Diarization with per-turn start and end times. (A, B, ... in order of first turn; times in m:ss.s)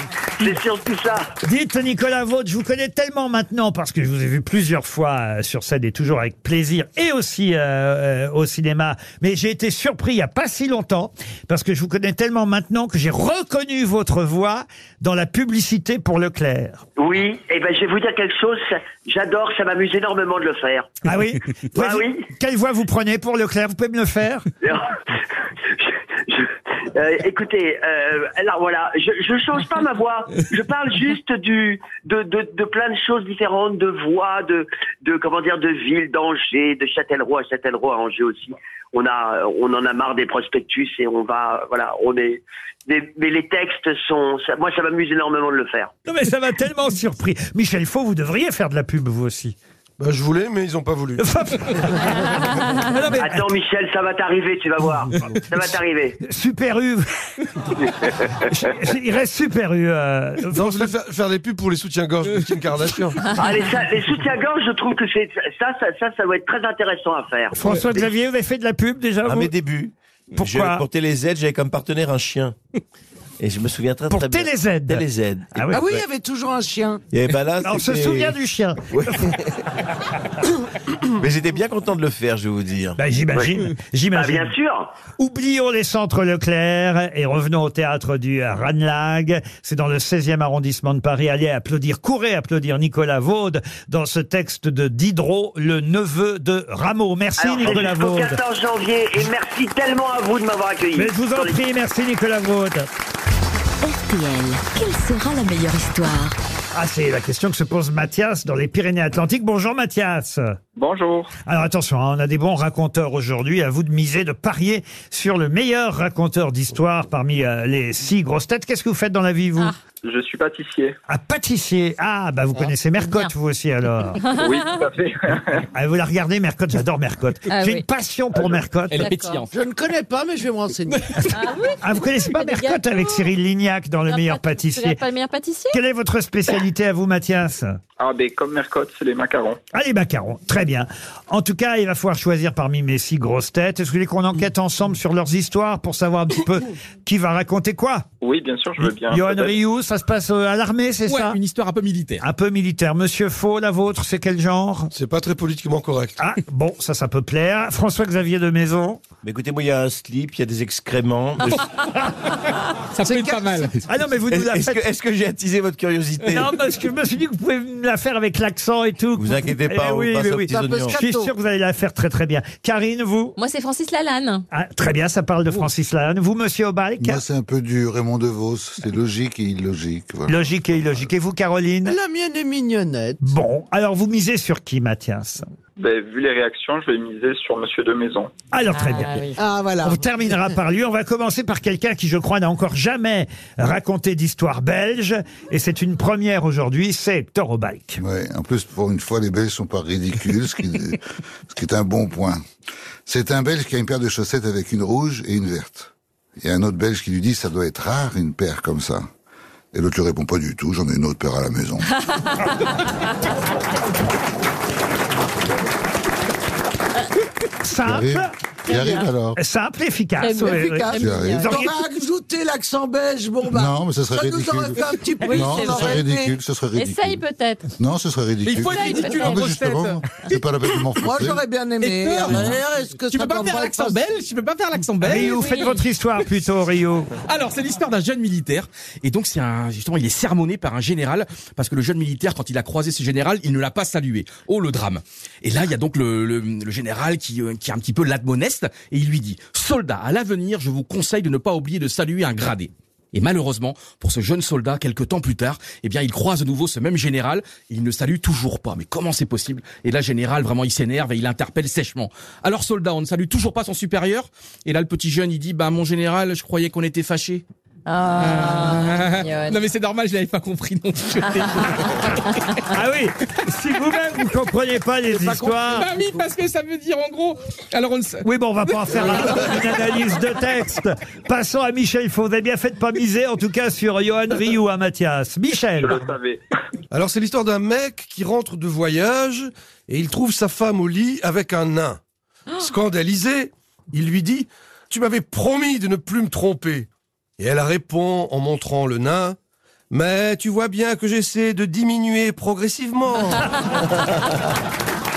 0:00.4-0:01.3 A
0:01.4-0:16.8 B
0:17.0-0:20.9 A
0:21.0-0:24.5 B
0:21.8-0:22.2 A
0:24.6-0:24.9 A
0:25.7-0:45.9 A
0:46.1-0:49.6 B
0:50.0-0:51.2 C
0:51.2-0:53.5 B
0:53.2-0:56.2 A
0:56.2-0:57.1 B
0:58.4-1:00.9 B
1:00.5-1:03.2 C
1:03.4-1:07.8 A
1:07.5-1:09.5 B
1:09.2-1:12.5 D
1:10.4-1:10.8 B
1:13.4-1:16.0 D
1:14.1-1:15.8 B
1:15.7-1:17.0 E
1:17.1-1:18.3 D
1:17.6-1:19.3 B
1:18.9-1:19.5 D
1:21.2-1:23.0 D
1:23.0-1:24.5 B
1:24.1-1:24.9 A
1:25.2-1:38.4 B
1:37.4-1:41.6 A
1:41.0-1:42.9 B
1:43.8-1:46.4 F
1:46.7-1:50.6 B
1:50.8-1:51.3 G
1:51.5-1:59.7 B
2:00.0-2:00.9 G
2:01.1-2:04.2 B
2:03.0-2:03.3 H
2:04.2-2:04.9 H
2:04.4-2:05.6 G
2:05.7-2:09.1 B
2:07.5-2:07.8 H
2:08.9-2:09.5 I
2:09.0-2:09.4 H
2:09.5-2:11.2 E
2:11.3-2:13.3 H
2:11.8-2:15.0 B
2:14.1-2:15.8 H
2:15.7-2:17.8 B
2:18.0-2:19.6 G
2:19.7-2:28.0 B
2:28.2-2:29.5 G
2:28.8-2:31.4 B
2:31.1-2:32.2 I
2:32.2-2:34.9 B
2:34.9-2:36.2 C
2:36.2-2:39.0 B
2:39.2-2:41.6 D
2:42.9-2:43.7 I
2:43.0-2:43.7 E
2:43.9-2:44.8 B
2:44.3-2:46.5 D
2:46.3-2:53.4 B
2:49.2-2:51.0 D
2:50.5-2:51.3 E
2:53.4-2:54.4 H
2:54.5-2:57.2 B
2:57.0-3:01.1 J
3:00.3-3:02.0 B
3:01.8-3:03.2 E
3:03.2-3:05.4 B
3:05.8-3:08.3 G
3:08.5-3:18.0 B
3:08.7-3:09.4 H
3:09.4-3:10.4 E
3:18.0-3:22.4 J
3:23.0-3:29.1 J
3:29.7-3:31.9 J
3:32.1-3:32.5 H
3:37.6-3:38.3 B
3:37.8-3:39.4 J
3:38.7-3:39.1 H
3:39.4-3:41.7 B
3:40.2-3:41.7 H
3:40.4-3:46.4 E
3:41.0-3:41.4 J
3:43.5-3:47.2 J
3:45.2-3:46.0 H
3:46.7-3:47.7 H
3:47.8-3:51.4 J
3:48.4-3:50.8 I
3:48.6-3:49.5 H
3:51.0-3:54.0 E
3:51.8-3:55.5 I
3:55.0-3:57.1 B
3:55.1-3:55.8 H
3:57.2-4:27.4 I
4:27.8-4:29.6 H
4:28.2-4:32.2 I
4:31.4-4:31.6 H
4:32.7-4:35.9 B
4:35.1-4:36.2 E
4:35.8-4:38.2 I
4:38.2-4:46.1 B
4:38.8-4:39.1 I
4:45.8-4:46.4 G
4:46.9-4:52.0 C
4:52.6-4:56.9 C
4:57.4-4:59.4 C
4:59.9-5:03.5 C